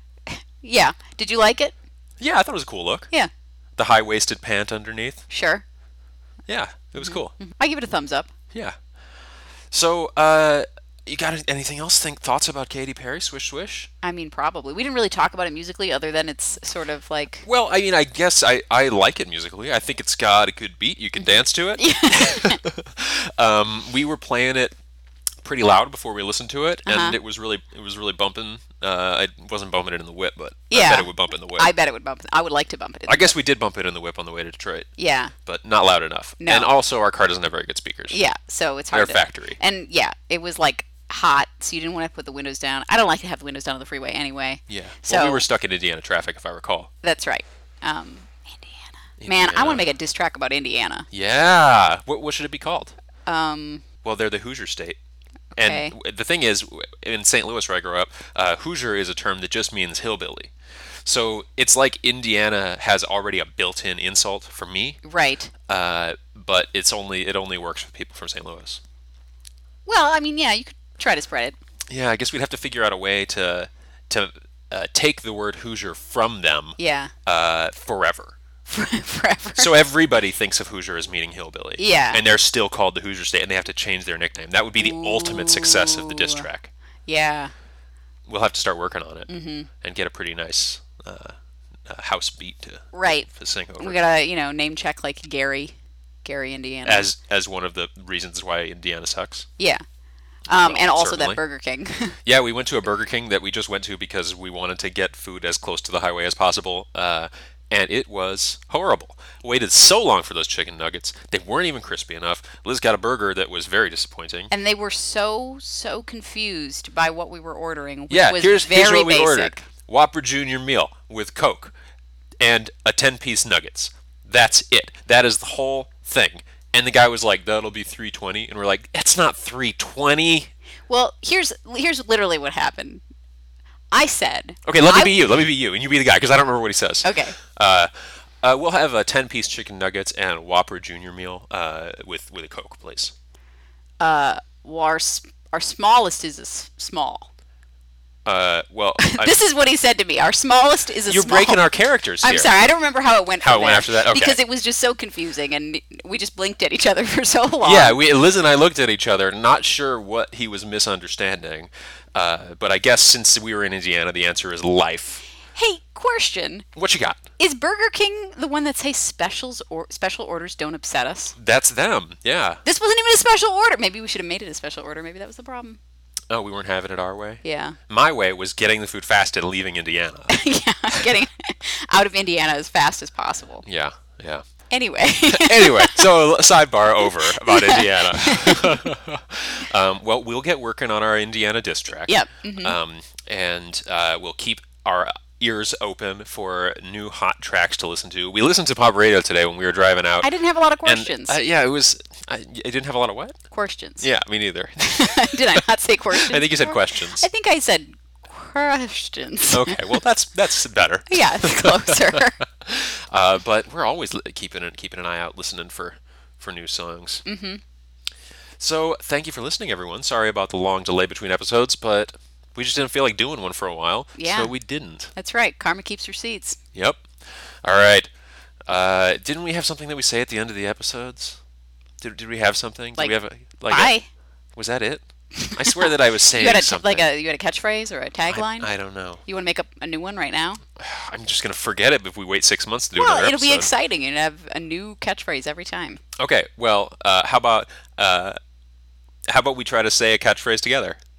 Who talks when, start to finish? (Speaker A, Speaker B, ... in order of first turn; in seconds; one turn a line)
Speaker A: 0.3-1.8
Speaker B: 2.2-3.1
Speaker B: 3.8-5.2
Speaker A: 5.3-5.6
Speaker B: 6.5-7.3
Speaker A: 7.0-8.3
Speaker B: 9.7-13.9
Speaker A: 14.0-17.4
Speaker B: 17.4-24.8
Speaker A: 21.2-22.6
Speaker B: 25.4-31.7
Speaker A: 26.9-27.2
Speaker A: 30.7-33.4
Speaker B: 33.1-34.9
Speaker A: 35.0-35.3
Speaker B: 35.4-38.2
Speaker A: 36.4-36.7
Speaker A: 38.1-45.5
Speaker B: 38.9-39.6
Speaker B: 44.7-46.9
Speaker A: 47.0-51.1
Speaker B: 49.2-49.9
Speaker B: 51.1-53.0
Speaker A: 53.3-53.8
Speaker B: 54.0-55.0
Speaker A: 55.6-55.9
Speaker B: 55.6-60.5
Speaker B: 61.0-65.0
Speaker A: 65.0-65.5
Speaker B: 65.7-68.8
Speaker A: 69.9-71.6
Speaker B: 71.9-78.4
Speaker A: 76.8-77.1
Speaker A: 78.7-79.7
Speaker B: 79.6-86.7
Speaker A: 81.8-82.2
Speaker A: 84.8-86.5
Speaker A: 87.1-87.5
Speaker B: 88.3-89.3
Speaker A: 89.3-89.7
Speaker B: 89.8-94.0
Speaker A: 92.9-95.7
Speaker A: 96.2-97.1
Speaker B: 96.9-99.5
Speaker A: 100.5-102.2
Speaker B: 100.5-101.4
Speaker B: 102.2-114.5
Speaker A: 114.5-119.6
Speaker B: 118.1-121.7
Speaker B: 122.4-130.5
Speaker A: 130.9-133.0
Speaker A: 133.9-135.2
Speaker B: 134.7-143.1
Speaker A: 137.0-137.4
Speaker A: 144.0-147.3
Speaker B: 148.2-149.4
Speaker A: 149.0-151.7
Speaker B: 151.1-152.6
Speaker A: 152.2-158.0
Speaker B: 153.4-154.4
Speaker B: 157.6-165.2
Speaker A: 165.6-166.7
Speaker B: 166.8-167.2
Speaker A: 167.4-171.3
Speaker B: 171.4-172.6
Speaker A: 172.7-175.8
Speaker B: 176.3-181.1
Speaker A: 177.4-177.8
Speaker A: 180.3-183.7
Speaker B: 183.7-184.4
Speaker A: 184.7-186.1
Speaker B: 185.3-203.4
Speaker A: 187.0-188.8
Speaker A: 192.1-192.8
Speaker A: 200.2-201.4
Speaker A: 203.5-204.1
Speaker B: 204.0-207.3
Speaker A: 204.9-209.9
Speaker B: 209.5-217.2
Speaker A: 211.1-212.4
Speaker A: 217.3-217.6
Speaker B: 218.6-225.1
Speaker A: 224.2-224.5
Speaker A: 225.2-226.6
Speaker B: 226.8-228.1
Speaker B: 228.7-231.4
Speaker B: 232.0-233.9
Speaker A: 233.7-234.1
Speaker B: 234.6-237.1
Speaker A: 235.4-238.7
Speaker B: 238.3-239.2
Speaker A: 239.3-240.6
Speaker B: 240.8-243.7
Speaker A: 243.0-246.0
Speaker B: 246.2-248.4
Speaker B: 249.3-251.0